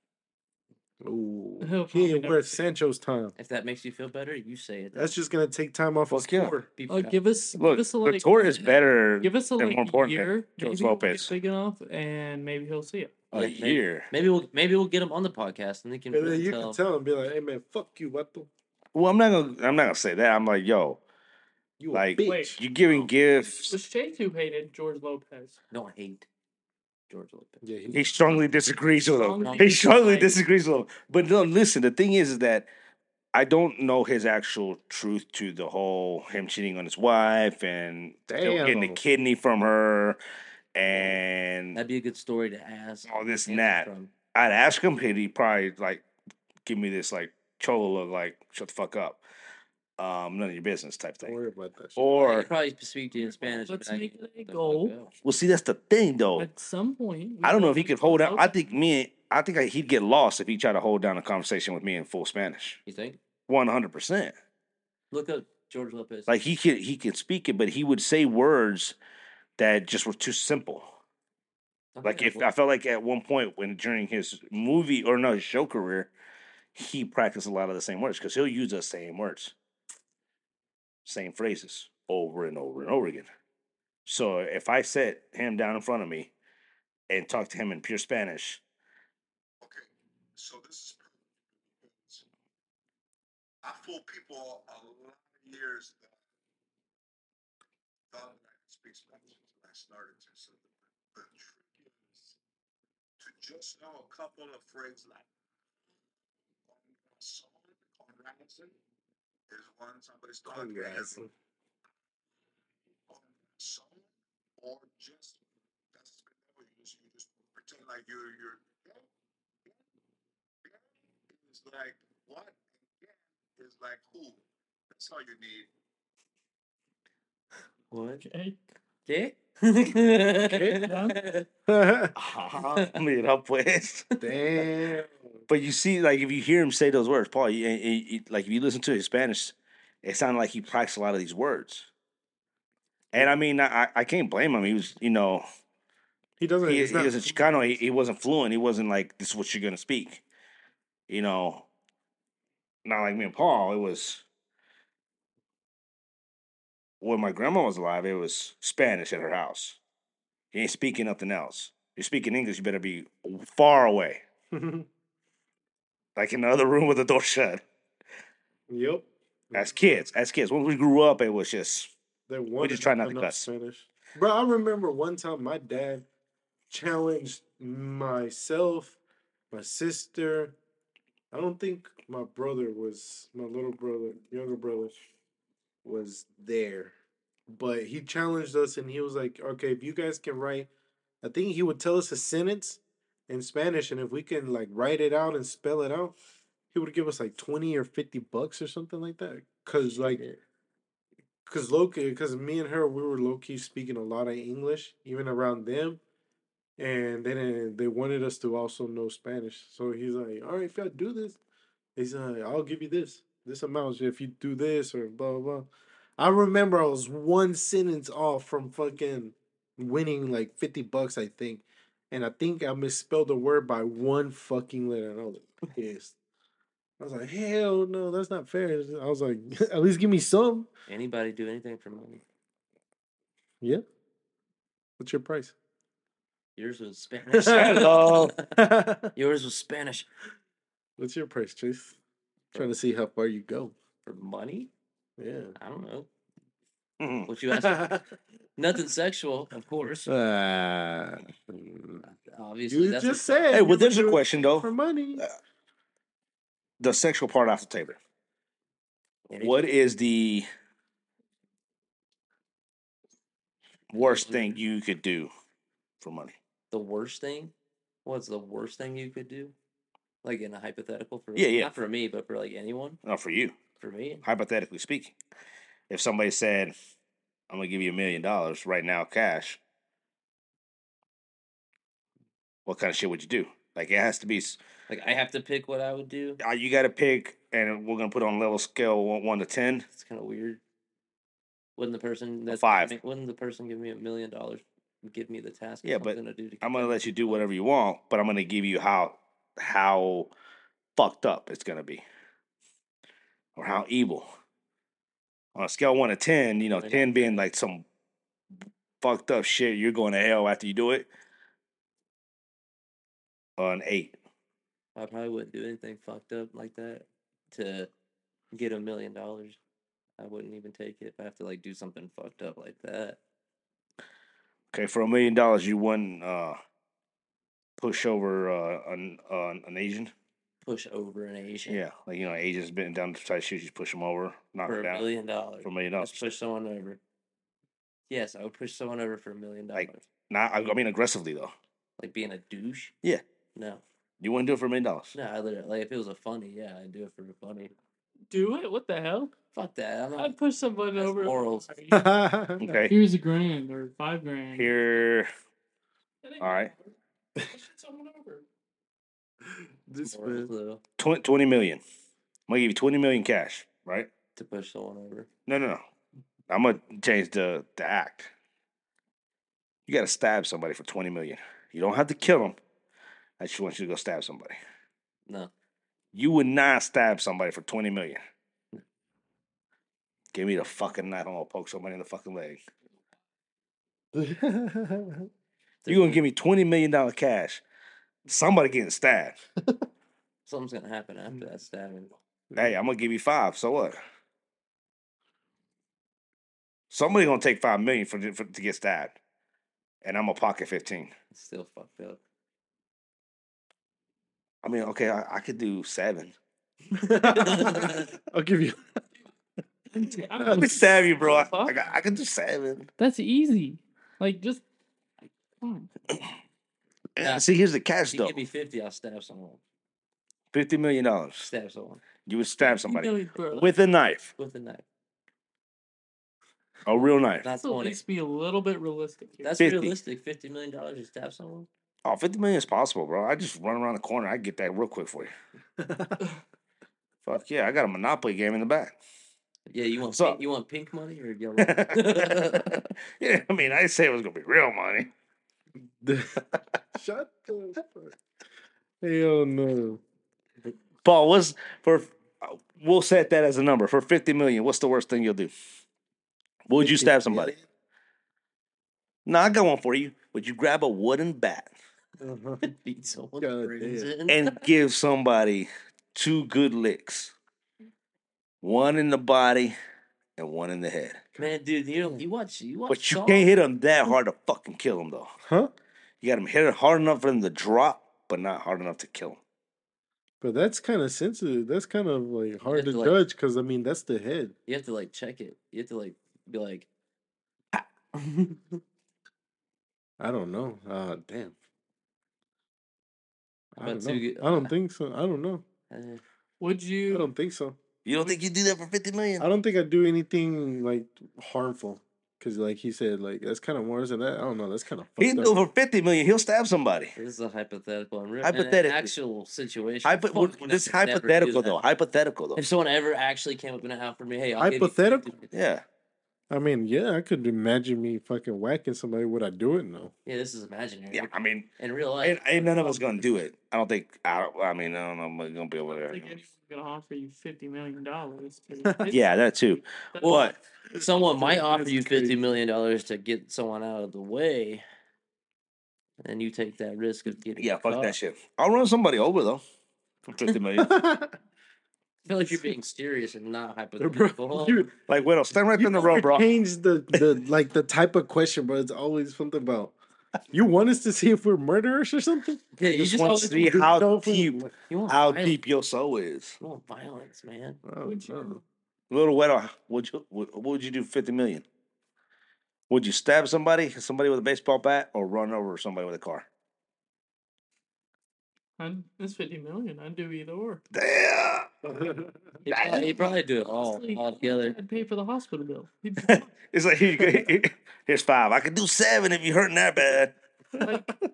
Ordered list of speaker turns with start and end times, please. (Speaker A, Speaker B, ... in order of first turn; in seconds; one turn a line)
Speaker A: 1.0-3.3
Speaker B: 1.6-2.6
Speaker C: 3.4-5.2
Speaker A: 4.9-6.7
Speaker D: 6.1-6.5
Speaker C: 6.8-7.2
Speaker B: 6.9-13.1
Speaker D: 7.5-11.3
Speaker D: 13.3-14.1
Speaker C: 13.3-16.8
Speaker A: 16.1-18.5
Speaker D: 18.9-21.0
Speaker A: 21.8-22.6
Speaker D: 21.9-23.8
Speaker B: 22.2-22.6
Speaker B: 23.5-25.6
Speaker C: 25.7-26.3
Speaker C: 27.1-27.6
Speaker A: 27.6-28.1
Speaker D: 27.9-32.7
Speaker B: 29.1-30.4
Speaker C: 29.4-29.9
Speaker D: 33.3-40.2
Speaker A: 38.3-39.0
Speaker D: 40.7-41.8
Speaker C: 40.9-41.2
Speaker C: 41.7-44.1
Speaker D: 43.0-46.0
Speaker D: 46.6-49.2
Speaker D: 50.0-51.4
Speaker A: 51.2-52.3
Speaker D: 52.0-52.5
Speaker C: 52.1-55.1
Speaker B: 53.2-54.9
Speaker D: 55.2-56.5
Speaker B: 56.4-58.5
Speaker D: 57.4-62.8
Speaker C: 62.9-63.2
Speaker D: 63.5-64.3
Speaker C: 65.1-66.3
Speaker D: 66.3-69.0
Speaker D: 69.6-70.9
Speaker C: 71.9-72.5
Speaker D: 72.0-76.1
Speaker D: 76.7-79.5
Speaker D: 81.0-83.3
Speaker D: 84.0-86.3
Speaker D: 87.1-88.6
Speaker E: 89.6-92.2
Speaker E: 93.6-96.2
Speaker E: 98.1-102.4
Speaker E: 103.2-105.2
Speaker E: 106.7-108.7
Speaker E: 109.5-111.3
Speaker A: 110.5-111.3
Speaker E: 113.1-119.1
Speaker E: 120.6-125.7
Speaker C: 127.9-128.2
Speaker B: 128.2-128.6
Speaker C: 129.1-131.5
Speaker A: 130.4-130.9
Speaker B: 130.8-131.2
Speaker A: 131.7-132.1
Speaker D: 132.1-134.1
Speaker A: 134.2-135.2
Speaker D: 135.5-141.9
Speaker D: 143.1-145.4
Speaker A: 146.4-147.7
Speaker D: 146.7-150.2
Speaker D: 151.1-151.7
Speaker D: 152.8-154.2
Speaker D: 157.0-159.8
Speaker D: 160.5-164.2
Speaker A: 164.5-164.9
Speaker D: 166.2-167.6
Speaker A: 168.7-170.0
Speaker D: 169.5-171.9
Speaker A: 172.3-176.0
Speaker D: 172.6-173.5
Speaker A: 176.7-179.0
Speaker A: 179.5-180.6
Speaker A: 181.3-184.9
Speaker A: 185.8-186.9
Speaker A: 187.5-190.7
Speaker A: 191.2-196.2
Speaker A: 196.7-200.2
Speaker A: 201.4-206.0
Speaker A: 206.8-211.4
Speaker A: 211.9-226.2
Speaker A: 227.0-230.7
Speaker C: 230.9-232.2
Speaker A: 235.0-235.5
Speaker C: 236.6-238.4
Speaker A: 237.3-239.1
Speaker D: 237.4-238.3
Speaker C: 239.1-240.1
Speaker A: 241.0-242.0
Speaker A: 242.5-243.7
Speaker C: 244.0-244.7
Speaker A: 245.2-245.6
Speaker C: 245.6-246.1
Speaker D: 247.0-247.3
Speaker C: 247.2-248.0
Speaker A: 247.5-248.1
Speaker C: 248.6-250.1
Speaker A: 250.1-252.1
Speaker C: 252.0-253.4
Speaker A: 252.7-255.2
Speaker D: 253.5-255.3
Speaker D: 256.8-258.0
Speaker C: 259.3-259.7
Speaker D: 259.4-260.5
Speaker D: 263.9-265.3
Speaker C: 263.9-264.6
Speaker D: 266.0-266.4
Speaker C: 266.7-267.5
Speaker C: 268.0-269.5
Speaker C: 270.2-273.0
Speaker D: 271.4-271.7
Speaker D: 273.0-273.6
Speaker C: 273.8-274.2
Speaker D: 274.2-275.1
Speaker D: 275.9-276.7
Speaker D: 277.5-279.6
Speaker D: 282.6-284.6
Speaker C: 284.9-286.4
Speaker D: 286.4-289.9
Speaker C: 289.9-290.6
Speaker C: 291.8-297.4
Speaker D: 292.5-292.9
Speaker D: 295.8-300.3
Speaker D: 300.9-302.0
Speaker D: 303.6-304.3
Speaker D: 305.6-307.8
Speaker C: 306.7-307.4
Speaker D: 309.0-311.1
Speaker D: 313.6-314.2
Speaker C: 314.9-317.9
Speaker C: 318.5-319.6
Speaker C: 320.2-323.2
Speaker D: 324.7-326.6
Speaker D: 327.8-330.1
Speaker C: 330.6-331.8
Speaker D: 331.6-335.1
Speaker C: 334.6-337.0
Speaker D: 335.6-336.2
Speaker C: 338.1-340.1
Speaker D: 339.7-341.5
Speaker C: 342.0-342.9
Speaker C: 343.5-343.8
Speaker D: 344.2-345.1
Speaker C: 345.1-347.7
Speaker B: 348.3-349.3
Speaker C: 349.5-350.4
Speaker B: 350.2-352.0
Speaker C: 350.9-351.7
Speaker A: 351.9-352.8
Speaker D: 352.6-352.9
Speaker B: 352.9-354.8
Speaker D: 354.5-355.3
Speaker B: 356.2-358.4
Speaker D: 356.4-356.7
Speaker A: 359.9-360.5
Speaker C: 360.0-360.8
Speaker D: 361.0-361.8
Speaker D: 362.5-364.1
Speaker C: 364.4-365.3
Speaker D: 365.4-365.8
Speaker D: 366.5-368.3
Speaker D: 369.9-372.6
Speaker D: 373.4-374.6
Speaker C: 375.2-375.5
Speaker D: 376.1-378.2
Speaker D: 380.3-382.6
Speaker A: 384.1-385.3
Speaker C: 385.8-386.2
Speaker D: 385.9-387.6
Speaker D: 388.2-389.4
Speaker C: 390.4-392.1
Speaker D: 392.5-394.0
Speaker D: 396.9-399.2
Speaker D: 400.0-401.1
Speaker C: 401.3-402.2
Speaker D: 404.6-406.3
Speaker A: 407.0-409.0
Speaker C: 407.2-408.1
Speaker B: 409.9-411.7
Speaker A: 410.3-410.7
Speaker D: 410.4-412.9
Speaker B: 413.0-414.6
Speaker B: 415.6-415.9
Speaker D: 417.2-418.4
Speaker C: 417.2-417.4
Speaker C: 418.1-419.6
Speaker D: 420.5-421.5
Speaker C: 421.4-422.0
Speaker D: 422.2-424.3
Speaker B: 422.6-423.7
Speaker C: 424.4-424.8
Speaker D: 426.9-427.4
Speaker C: 427.4-428.0
Speaker B: 427.6-429.5
Speaker C: 429.4-431.7
Speaker D: 429.6-429.9
Speaker D: 432.0-435.3
Speaker A: 435.8-436.2
Speaker D: 437.2-438.9
Speaker C: 439.7-442.7
Speaker D: 440.1-440.4
Speaker D: 441.6-445.1
Speaker A: 446.0-448.2
Speaker A: 449.0-450.0
Speaker D: 451.0-455.5
Speaker D: 456.7-457.6
Speaker A: 456.8-457.6
Speaker D: 459.2-461.7
Speaker A: 462.2-462.7
Speaker C: 462.6-464.6
Speaker A: 463.4-464.1
Speaker D: 464.3-467.3
Speaker D: 468.6-469.7
Speaker D: 470.4-471.3
Speaker C: 471.4-473.5
Speaker D: 472.9-475.3
Speaker A: 475.4-475.7
Speaker D: 476.2-479.4
Speaker A: 480.4-484.5
Speaker C: 482.7-483.2
Speaker C: 484.7-486.9
Speaker C: 487.7-488.8
Speaker A: 490.2-491.6
Speaker A: 493.7-495.6
Speaker C: 493.8-494.7
Speaker C: 495.9-496.2
Speaker B: 496.6-497.3
Speaker A: 497.1-497.8
Speaker D: 498.0-499.4
Speaker B: 498.1-498.4
Speaker A: 499.4-505.5
Speaker D: 505.2-507.1
Speaker C: 507.1-511.8
Speaker D: 508.4-509.1
Speaker D: 510.0-512.6
Speaker C: 512.5-515.5
Speaker A: 514.6-515.3
Speaker D: 515.5-515.8
Speaker A: 516.5-520.1
Speaker C: 520.2-523.3
Speaker D: 521.1-521.7
Speaker D: 522.2-526.4
Speaker B: 526.1-530.5
Speaker D: 529.1-530.5
Speaker C: 530.2-534.8
Speaker A: 530.9-532.4
Speaker C: 536.2-538.1
Speaker D: 537.6-539.6
Speaker D: 540.3-540.9
Speaker A: 540.8-541.3
Speaker C: 542.2-544.8
Speaker A: 544.0-544.9
Speaker D: 545.1-546.5
Speaker A: 545.7-549.9
Speaker A: 550.5-552.7
Speaker C: 552.8-553.8
Speaker D: 552.9-556.6
Speaker A: 553.5-554.7
Speaker C: 554.9-555.6
Speaker C: 556.6-557.8
Speaker A: 557.8-558.6
Speaker B: 558.0-558.6
Speaker D: 559.1-561.6
Speaker D: 562.9-566.5
Speaker B: 568.8-570.8
Speaker D: 570.9-571.7
Speaker A: 571.9-572.4
Speaker C: 572.6-574.8
Speaker D: 572.7-573.1
Speaker B: 573.7-576.5
Speaker D: 576.2-580.3
Speaker B: 580.8-581.1